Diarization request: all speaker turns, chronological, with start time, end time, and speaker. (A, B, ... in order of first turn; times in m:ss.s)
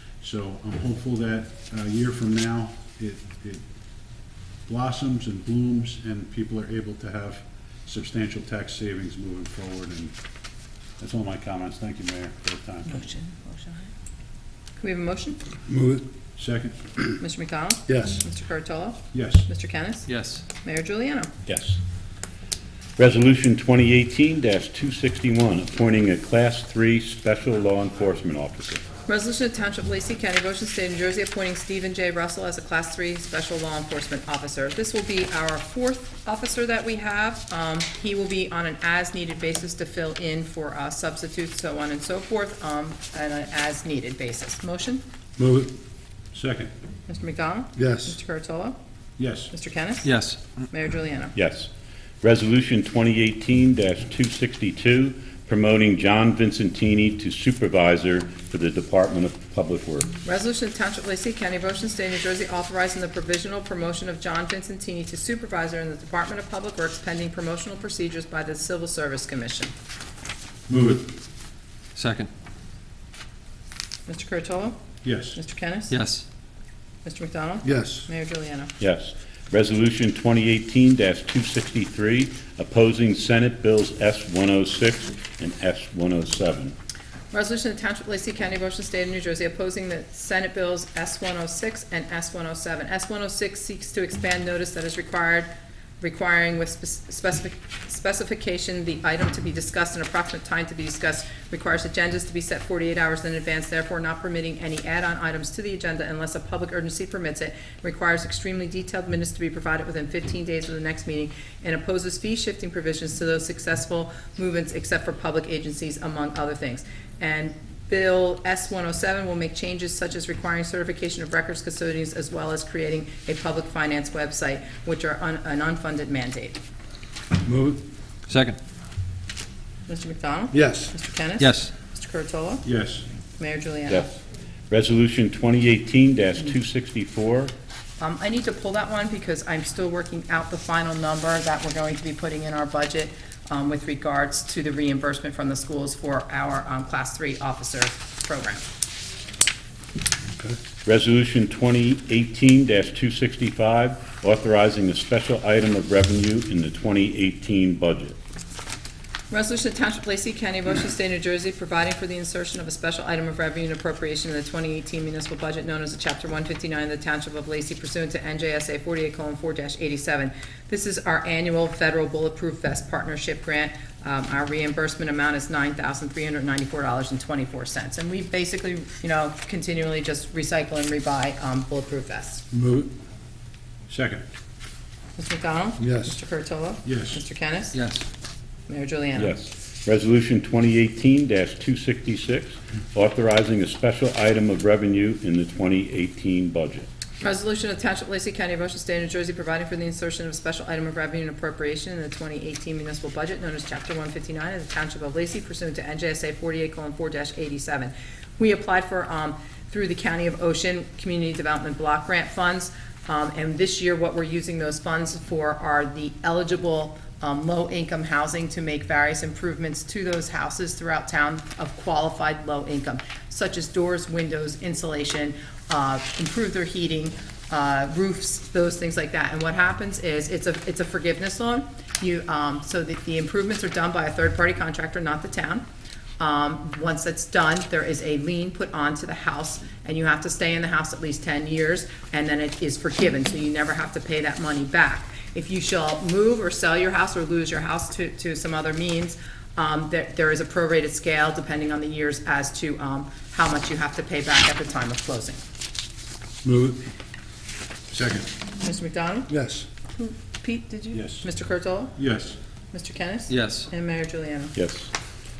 0:00.2-0:03.6 A
0:04.7-0:10.1 A
0:11.0-0:12.9 A
0:12.8-0:13.9 B
0:14.8-0:15.4 B
0:15.7-0:16.0 C
0:16.4-0:16.8 A
0:17.2-0:21.3 B
0:17.9-0:18.2 C
0:19.1-0:19.5 A
0:20.1-0:20.4 D
0:21.4-0:21.8 E
0:23.0-0:28.8 E
0:29.1-0:45.0 B
0:45.4-0:45.7 C
0:46.3-0:46.7 A
0:47.1-0:48.8 B
0:47.8-0:48.2 C
0:49.2-0:49.5 A
0:49.5-0:50.1 B
0:50.0-0:50.4 D
0:50.7-0:51.3 B
0:51.3-0:51.7 E
0:52.2-1:00.1 E
1:00.2-1:09.7 B
1:10.7-1:11.0 A
1:12.0-1:12.3 D
1:14.1-1:14.8 B
1:15.0-1:15.4 A
1:15.3-1:15.9 B
1:15.9-1:16.2 D
1:17.0-1:18.7 B
1:17.6-1:18.1 C
1:18.8-1:26.7 E
1:27.3-1:35.5 B
1:36.0-2:06.6 B
2:07.4-2:07.8 C
2:08.3-2:08.6 D
2:09.9-2:12.6 B
2:10.5-2:10.9 C
2:11.4-2:11.7 D
2:12.6-2:13.0 A
2:13.4-2:14.1 B
2:14.7-2:17.5 E
2:18.0-2:28.6 B
2:30.8-2:38.2 E
2:39.3-3:02.4 B
3:02.5-3:02.9 C
3:03.9-3:04.2 A
3:05.2-3:07.8 B
3:05.8-3:06.1 C
3:06.8-3:07.2 A
3:07.7-3:08.0 D
3:08.7-3:09.4 B
3:09.2-3:16.9 E
3:17.2-3:55.6 B
3:56.2-4:15.4 B
4:16.4-4:16.8 C
4:17.9-4:18.3 A
4:18.6-4:19.3 B
4:19.3-4:19.6 C
4:19.9-4:21.9 B
4:20.9-4:21.3 A
4:21.9-4:22.4 A
4:22.7-4:24.5 B
4:23.3-4:23.7 D
4:24.5-4:24.9 E